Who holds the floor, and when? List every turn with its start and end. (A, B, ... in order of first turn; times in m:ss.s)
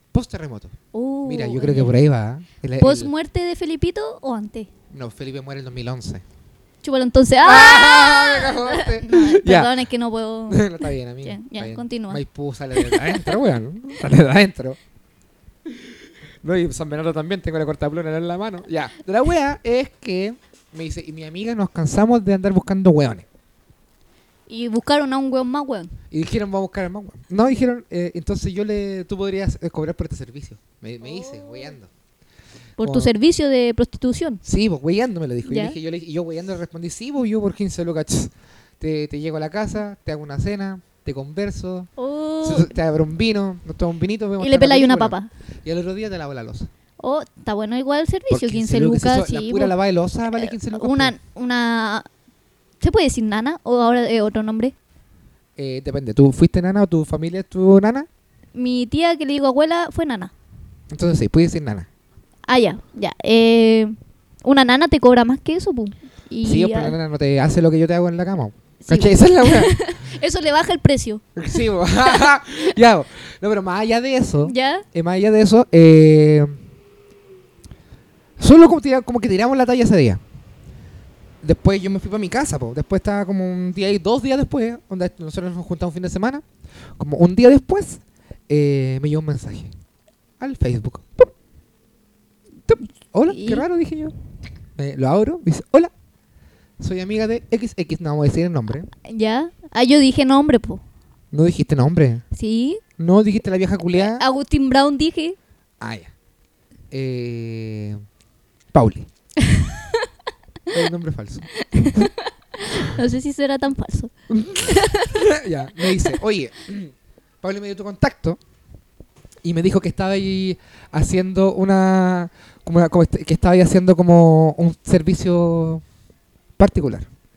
0:00.1-0:03.1 A
0:00.9-0:01.9 B
0:02.8-0:04.7 B
0:04.9-0:06.2 A
0:06.8-0:10.7 B
0:07.4-0:09.8 A
0:10.5-0:14.8 A
0:11.2-0:12.2 B
0:12.8-0:13.2 B
0:15.7-0:23.3 A
0:24.5-0:26.0 B
0:26.1-0:31.9 A
0:31.1-0:31.7 B
0:32.8-0:33.1 A
0:32.8-0:34.4 B
0:34.4-0:41.9 A
0:35.4-0:35.8 B
0:42.0-0:42.7 B
0:42.4-0:46.7 A
0:44.4-0:45.3 B
0:47.0-0:49.7 B
0:48.3-0:51.2 A
0:50.4-0:52.1 B
0:52.8-0:54.7 B
0:55.6-0:58.1 A
0:58.6-1:00.3 B
1:00.9-1:01.9 A
1:02.5-1:07.0 B
1:06.4-1:09.8 A
1:08.8-1:11.2 B
1:11.4-1:16.6 A
1:12.0-1:12.3 B
1:14.4-1:14.8 B
1:18.4-1:20.2 A
1:21.4-1:26.4 A
1:27.0-1:29.7 A
1:30.4-1:31.3 A
1:32.7-1:34.1 A
1:33.3-1:33.7 B
1:34.8-1:35.9 A
1:36.8-1:38.9 A
1:39.1-1:40.8 B
1:41.3-1:42.2 A
1:42.4-1:42.8 B
1:43.0-1:44.2 A
1:44.0-1:45.4 B
1:45.8-1:46.1 A
1:46.9-1:48.0 A
1:48.7-1:49.1 A
1:49.5-1:50.0 B
1:50.7-1:51.5 A
1:51.6-1:54.1 B
1:54.3-1:58.4 A
1:54.6-1:55.2 B
1:59.4-2:05.8 A
2:06.6-2:07.1 A